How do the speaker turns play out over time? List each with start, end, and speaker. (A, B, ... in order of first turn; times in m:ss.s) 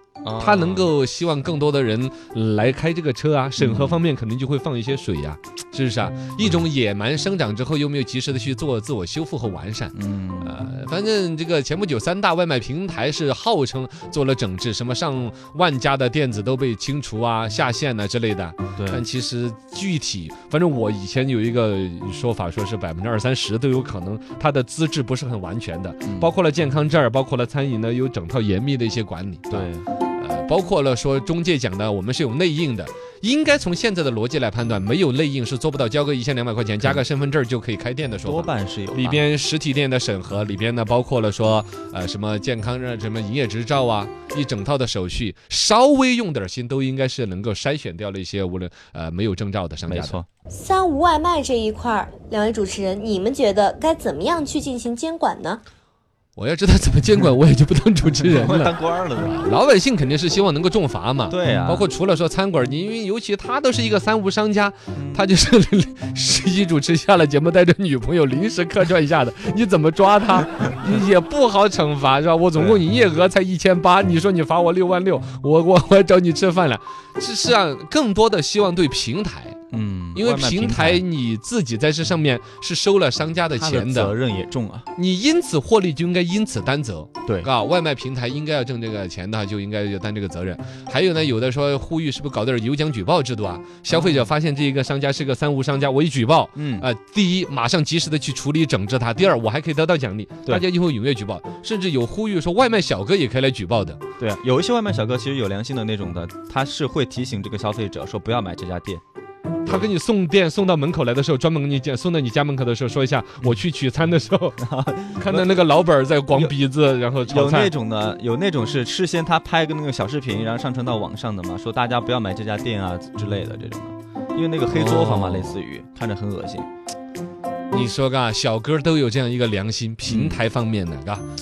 0:00.2-0:00.9 A
0:00.4-0:50.2 B
0:03.6-0:04.0 A
0:09.9-0:10.6 A
0:18.8-0:19.0 A
0:29.5-0:29.8 A
0:38.2-0:39.2 A
0:49.9-0:50.2 A
0:50.5-0:55.6 C
0:56.4-1:19.6 B
0:58.2-0:59.4 A
1:01.3-1:01.9 A
1:04.9-1:05.2 A
1:12.5-1:12.8 A
1:19.7-1:21.0 A
1:20.1-1:24.1 B
1:23.5-1:24.9 A
1:25.0-1:44.0 B
1:33.9-1:34.3 A
1:36.6-1:36.8 A
1:44.2-1:49.0 A
1:49.6-1:54.6 B
1:54.6-1:55.7 A
1:55.2-1:57.7 B
1:57.2-2:06.7 A
2:04.7-2:05.6 B
2:07.7-2:11.2 B
2:10.0-2:10.4 A